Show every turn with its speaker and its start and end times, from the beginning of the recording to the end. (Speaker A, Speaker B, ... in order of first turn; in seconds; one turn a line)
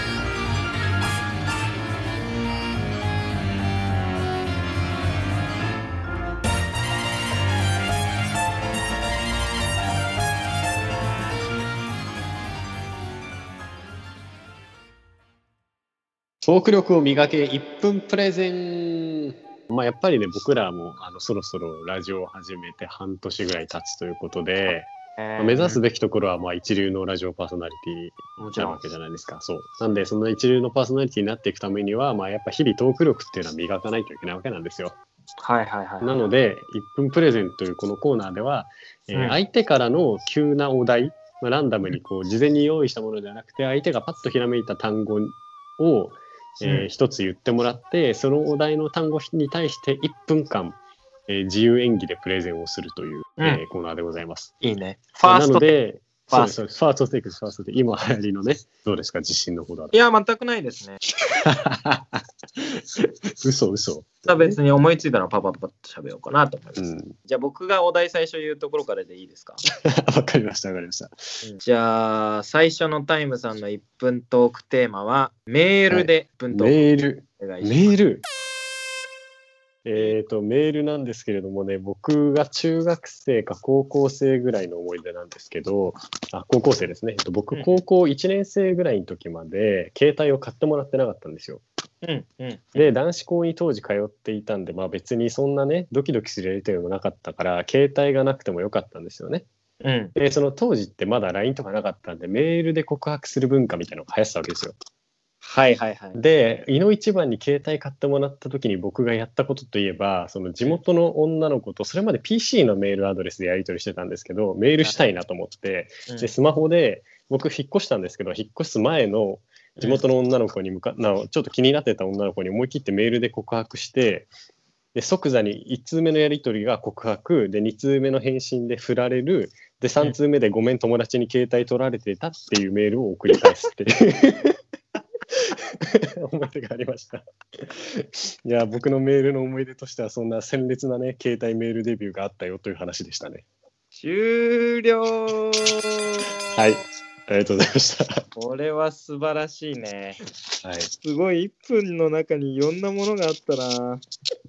Speaker A: 16.4-35.0
Speaker B: 25.2-25.8
Speaker B: 28.4-28.8
Speaker B: 35.4-36.2
Speaker A: 36.0-54.5
Speaker B: 54.6-55.7
Speaker A: 55.2-59.9
Speaker B: 56.3-56.6
Speaker B: 59.9-61.0
Speaker A: 61.4-64.6
Speaker B: 64.3-69.6
Speaker A: 66.8-67.1
Speaker A: 70.0-71.1
Speaker B: 71.4-76.8
Speaker A: 75.9-78.2
Speaker B: 77.4-78.0
Speaker A: 79.8-91.6
Speaker B: 87.5-87.8
Speaker B: 92.0-92.9
Speaker A: 92.8-99.5
Speaker B: 99.8-100.1
Speaker A: 100.1-104.8
Speaker B: 105.4-106.2
Speaker A: 106.1-124.3
Speaker B: 119.8-120.0
Speaker A: 124.9-134.5
Speaker A: 135.3-143.4
Speaker B: 143.9-146.6
Speaker A: 146.5-148.2
Speaker B: 148.3-150.2
Speaker A: 150.6-150.9
Speaker B: 151.0-154.0